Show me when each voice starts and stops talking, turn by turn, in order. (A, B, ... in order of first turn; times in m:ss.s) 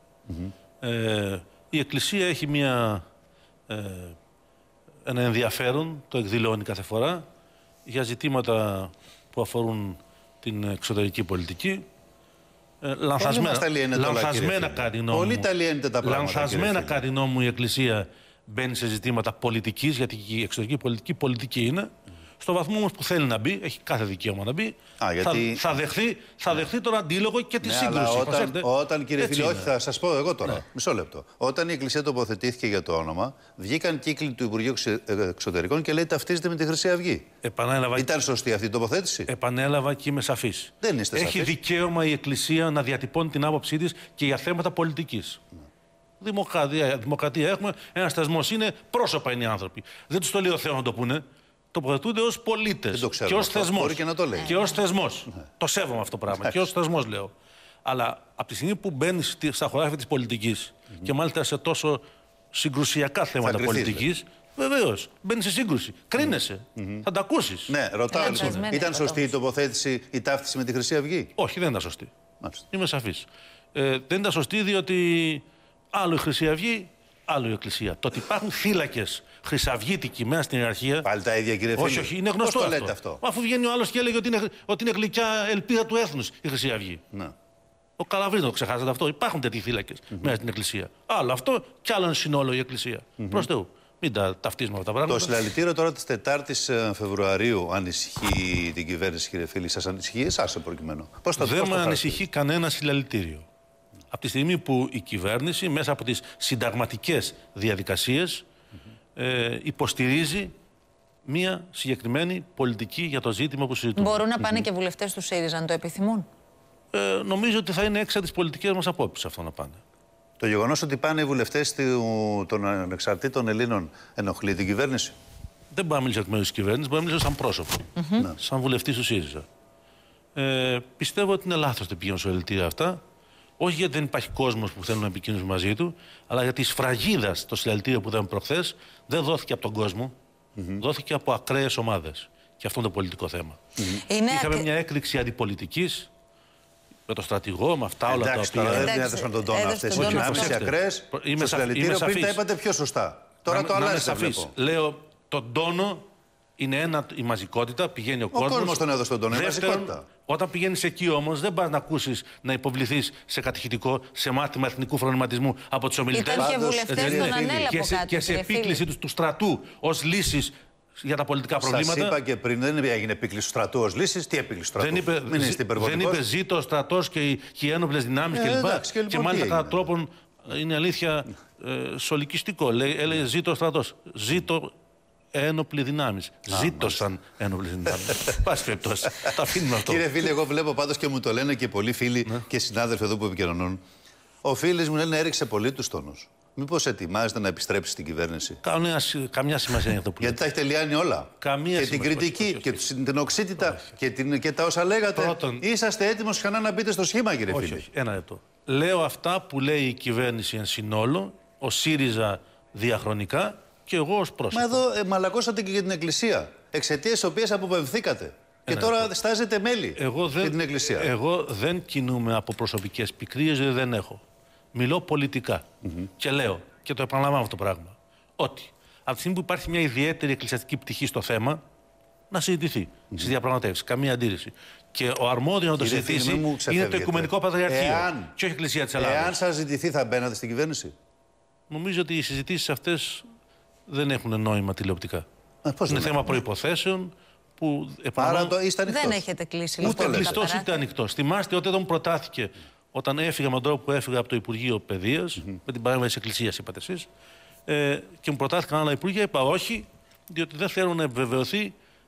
0:00.8-0:03.0 A
0:03.7-0:04.2 A
0:05.0-0:07.2 A
0:07.9-0:11.9 A
0:12.8-0:15.5 A
0:13.2-0:17.0 B
0:16.0-0:29.7 A
0:25.0-0:25.6 B
0:27.6-0:37.3 B
0:37.4-0:38.1 A
0:38.0-0:39.3 B
0:39.3-0:45.4 A
0:40.8-0:41.6 B
0:46.2-0:51.2 A
0:51.7-0:57.3 A
0:52.9-0:54.6 B
0:54.4-0:54.8 C
0:57.8-1:02.0 A
1:02.5-1:08.7 A
1:03.4-1:04.0 B
1:06.2-1:07.0 B
1:07.7-1:11.3 B
1:08.1-1:09.4 C
1:11.4-1:12.1 A
1:12.7-1:21.1 A
1:21.0-1:23.2 B
1:21.8-1:27.0 A
1:28.0-1:35.5 A
1:30.1-1:30.4 B
1:33.2-1:33.5 B
1:35.1-1:42.2 B
1:41.4-1:43.5 A
1:44.1-1:48.5 A
1:49.2-1:50.5 A
1:51.3-1:54.2 A
1:54.0-1:56.3 C
1:56.9-1:59.8 A
2:00.4-2:05.1 B
2:05.7-2:09.5 A
2:08.0-2:08.3 C
2:10.4-2:13.0 A
2:13.6-2:20.1 A
2:20.6-2:20.8 B
2:20.8-2:23.6 A
2:23.8-2:24.7 C
2:24.3-2:26.1 A
2:27.1-2:29.0 A
2:28.1-2:34.5 B
2:28.7-2:30.6 C
2:29.9-2:32.4 A
2:33.5-2:36.0 A
2:36.6-2:52.2 A
2:38.3-2:40.1 B
2:46.1-2:48.8 C
2:46.4-2:47.7 B
2:51.6-2:56.2 B
2:54.8-3:04.7 A
2:58.3-2:59.9 B
3:05.3-3:10.1 A
3:06.5-3:07.0 B
3:09.7-3:13.8 B
3:14.4-3:18.6 B
3:18.6-3:20.4 A
3:20.2-3:27.8 B
3:21.4-3:22.8 A
3:23.6-3:23.9 A
3:25.2-3:25.7 A
3:27.5-3:34.8 A
3:34.5-3:41.1 B
3:38.7-3:39.1 A
3:40.0-3:44.2 A
3:44.7-3:45.7 A
3:46.2-3:51.6 A
3:52.3-3:59.4 A
3:55.8-3:58.3 B
3:59.0-4:00.9 B
4:01.7-4:03.2 A
4:03.9-4:05.2 A
4:05.6-4:06.4 B
4:05.9-4:08.5 A
4:08.2-4:09.2 B
4:08.9-4:10.8 C
4:09.8-4:10.4 B
4:09.8-4:17.1 A
4:17.7-4:21.7 A